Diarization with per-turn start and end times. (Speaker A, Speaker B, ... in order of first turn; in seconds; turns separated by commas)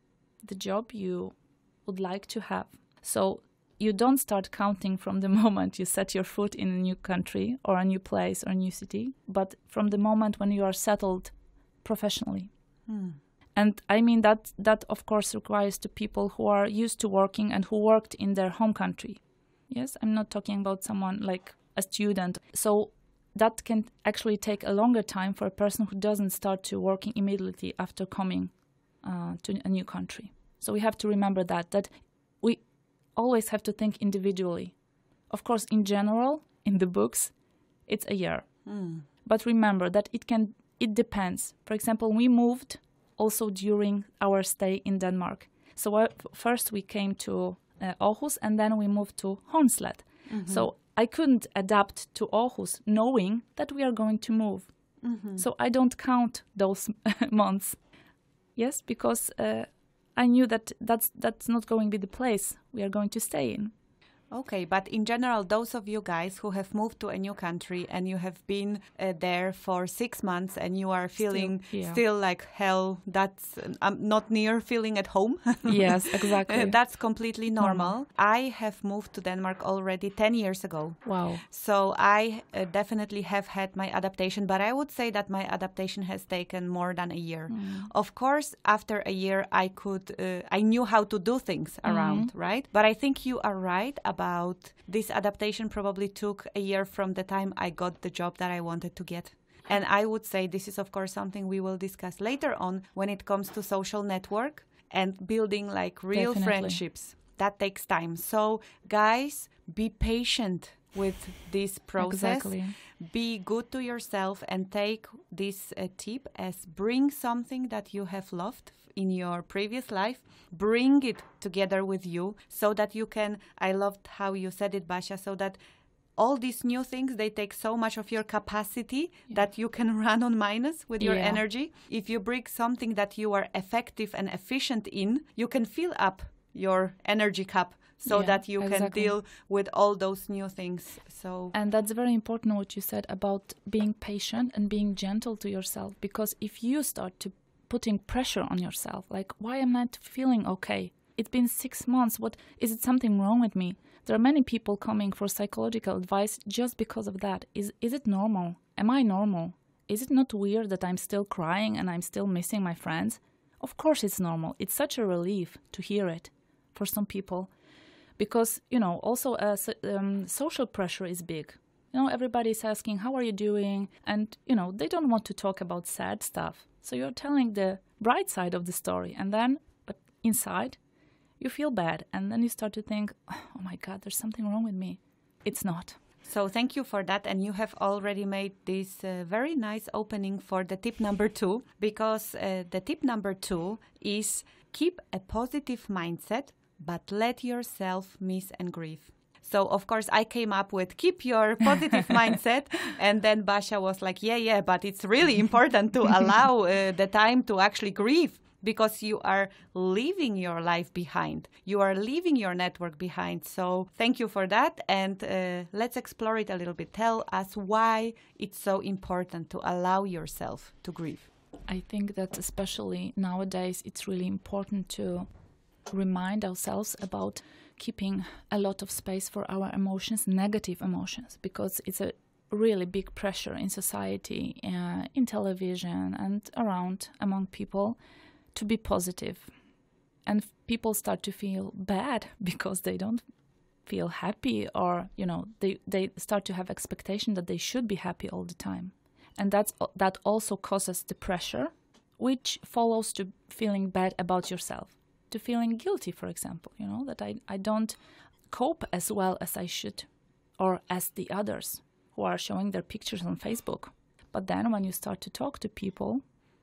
Speaker A: 0.4-12.5, Speaker B: 12.9-13.2, Speaker A: 13.6-32.6, Speaker A: 33.1-34.7, Speaker A: 35.3-37.3, Speaker A: 37.9-38.7, Speaker B: 38.6-39.0, Speaker A: 39.2-54.7, Speaker B: 50.3-50.7, Speaker B: 55.0-55.4, Speaker A: 55.4-57.8, Speaker A: 58.5-63.7, Speaker B: 64.3-125.6, Speaker A: 71.2-72.0, Speaker A: 75.7-76.8, Speaker A: 77.6-77.9, Speaker A: 81.0-81.4, Speaker A: 87.5-87.9, Speaker A: 91.8-92.3, Speaker A: 106.1-106.8, Speaker A: 112.0-112.8, Speaker B: 126.2-141.5, Speaker A: 131.0-131.4, Speaker A: 138.1-139.1, Speaker A: 141.5-167.5, Speaker A: 168.2-180.8, Speaker A: 181.4-186.0, Speaker B: 186.2-221.3, Speaker A: 221.7-225.3, Speaker A: 225.9-238.0, Speaker A: 238.5-239.5, Speaker A: 240.2-243.2, Speaker A: 243.8-266.2